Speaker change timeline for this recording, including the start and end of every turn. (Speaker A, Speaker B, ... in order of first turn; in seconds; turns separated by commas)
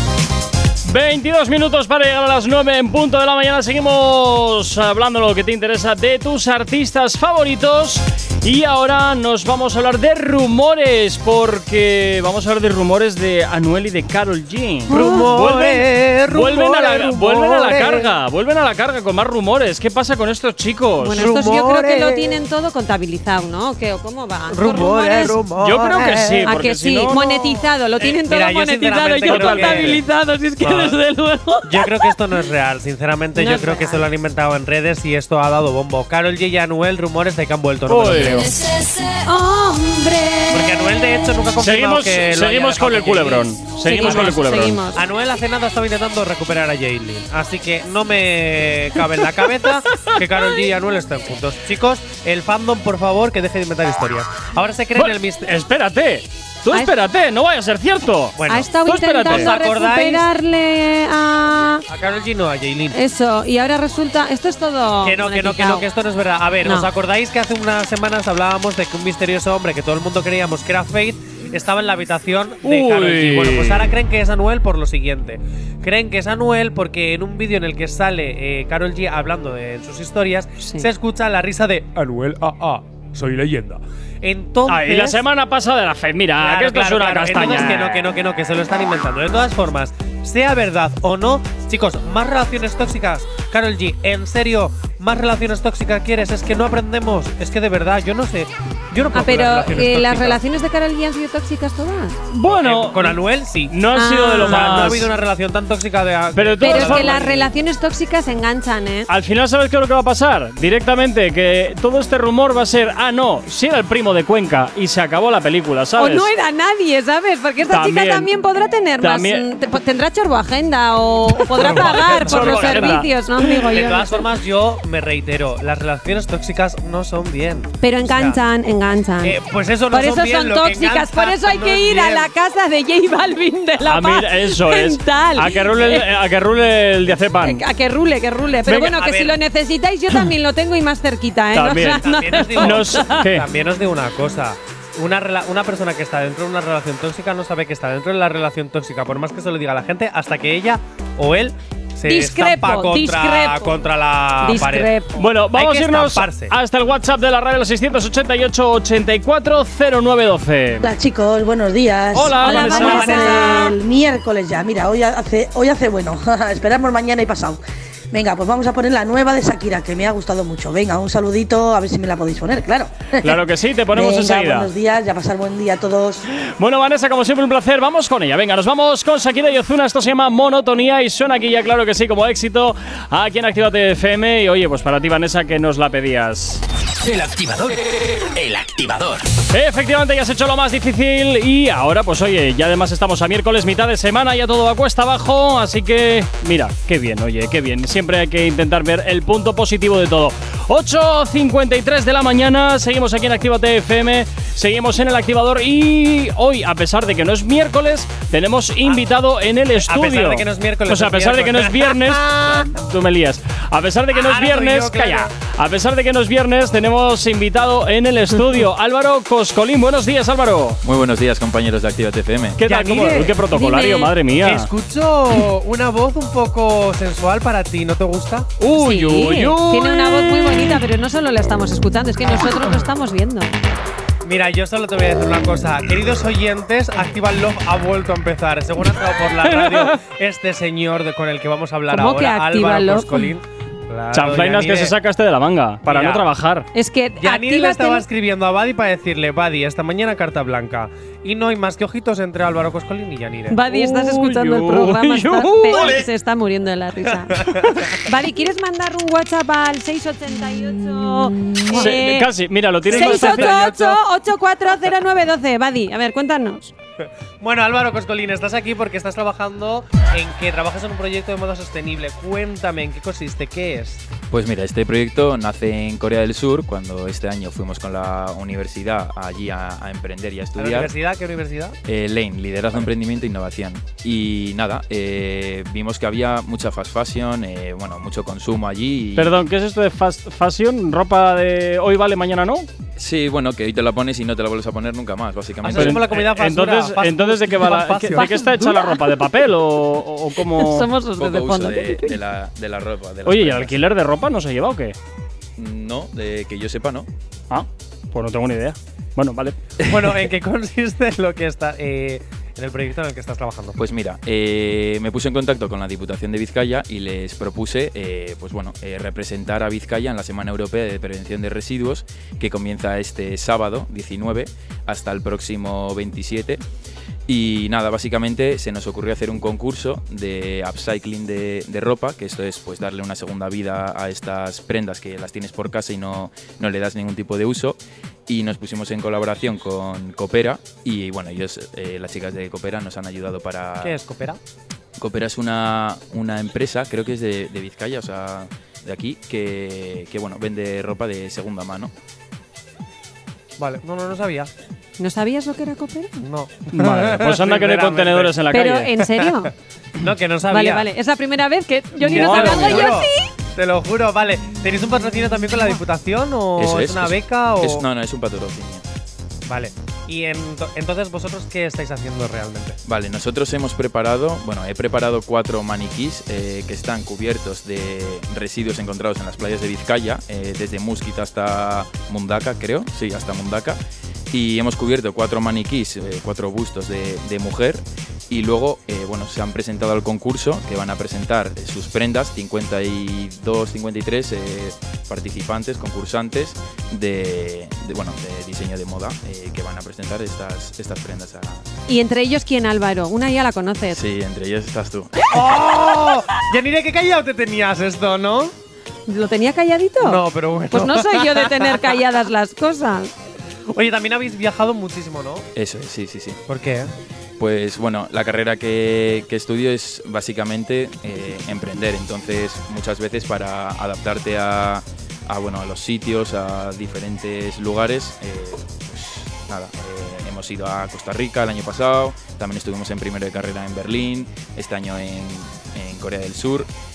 Speaker A: 0.9-21.4, Speaker B: 14.9-15.3, Speaker C: 14.9-18.1, Speaker B: 21.0-25.4, Speaker C: 21.1-22.4, Speaker C: 24.5-26.5, Speaker A: 25.6-27.2, Speaker B: 26.4-32.1, Speaker C: 28.0-30.0, Speaker A: 29.3-30.0, Speaker C: 30.6-31.0, Speaker C: 31.6-38.5, Speaker B: 33.4-34.0, Speaker A: 37.9-38.5, Speaker B: 38.7-40.8, Speaker C: 40.5-55.5, Speaker A: 41.6-44.8, Speaker B: 43.9-45.0, Speaker A: 55.0-59.5, Speaker C: 58.4-58.7, Speaker B: 58.5-61.9, Speaker C: 59.3-60.3, Speaker C: 61.9-63.0, Speaker B: 62.9-65.9, Speaker C: 65.0-85.2, Speaker B: 66.6-66.9, Speaker A: 72.6-74.0, Speaker B: 80.6-80.9, Speaker A: 84.7-88.1, Speaker C: 86.4-100.4, Speaker B: 99.1-102.2, Speaker A: 102.3-105.1, Speaker C: 102.5-103.8, Speaker B: 103.9-104.9, Speaker C: 104.4-107.5, Speaker A: 106.3-107.2, Speaker B: 106.6-109.1, Speaker A: 109.1-116.3, Speaker B: 116.0-124.2, Speaker A: 117.7-118.3, Speaker A: 119.0-119.5, Speaker C: 121.5-123.1, Speaker A: 121.5-123.1, Speaker C: 123.6-128.4, Speaker B: 127.8-129.4, Speaker C: 129.2-132.3, Speaker B: 129.9-136.1, Speaker A: 133.8-137.6, Speaker B: 137.4-143.3, Speaker C: 138.7-139.4, Speaker A: 141.5-143.5, Speaker C: 141.9-156.5, Speaker B: 152.1-153.8, Speaker B: 154.4-155.2, Speaker A: 155.2-160.9, Speaker D: 160.8-173.4, Speaker A: 162.1-163.5, Speaker C: 162.3-163.7, Speaker B: 162.4-163.8, Speaker A: 173.2-174.7, Speaker D: 173.9-176.2, Speaker A: 176.4-186.6, Speaker E: 187.0-189.3, Speaker A: 189.5-220.8, Speaker C: 209.8-212.7, Speaker C: 214.1-215.3, Speaker F: 220.8-222.6, Speaker A: 222.6-224.7, Speaker C: 222.6-223.4, Speaker B: 223.5-224.1, Speaker C: 224.3-228.5, Speaker A: 228.6-230.8, Speaker B: 228.7-233.5, Speaker C: 234.2-244.9, Speaker A: 239.4-240.0, Speaker B: 241.9-243.3, Speaker A: 244.1-246.7, Speaker C: 245.9-246.2, Speaker B: 246.7-248.1, Speaker C: 247.2-253.6, Speaker B: 253.5-262.3, Speaker A: 253.7-256.0, Speaker C: 257.4-257.9, Speaker C: 261.7-261.9, Speaker A: 261.7-263.9, Speaker C: 262.9-264.0, Speaker B: 262.9-266.7, Speaker C: 267.4-274.1, Speaker F: 274.3-280.9, Speaker C: 280.6-281.8, Speaker F: 281.9-289.4, Speaker A: 289.2-292.7, Speaker F: 293.0-296.1, Speaker C: 295.6-298.6, Speaker A: 295.8-300.9, Speaker B: 298.2-299.0, Speaker B: 300.5-302.2, Speaker F: 301.2-303.8, Speaker A: 303.3-305.0, Speaker F: 305.6-307.1, Speaker A: 307.5-309.6, Speaker F: 309.8-310.1, Speaker C: 309.9-313.8, Speaker F: 313.8-326.6, Speaker F: 327.3-344.0, Speaker C: 343.8-344.4, Speaker F: 345.0-351.9, Speaker C: 353.6-354.5, Speaker B: 355.0-356.2, Speaker C: 356.2-358.3, Speaker A: 356.7-358.9, Speaker B: 358.5-359.5, Speaker C: 359.2-359.5, Speaker C: 360.0-360.9, Speaker B: 360.5-363.3, Speaker C: 362.0-367.8, Speaker A: 362.1-363.0, Speaker F: 366.6-368.8, Speaker C: 369.5-372.8, Speaker F: 372.9-383.8, Speaker F: 384.3-401.6, Speaker B: 401.9-404.0, Speaker F: 403.9-405.3, Speaker C: 405.3-408.5, Speaker B: 409.1-413.1, Speaker C: 410.0-411.8, Speaker C: 413.7-415.5, Speaker F: 415.6-416.4, Speaker C: 416.5-416.9, Speaker F: 417.4-436.7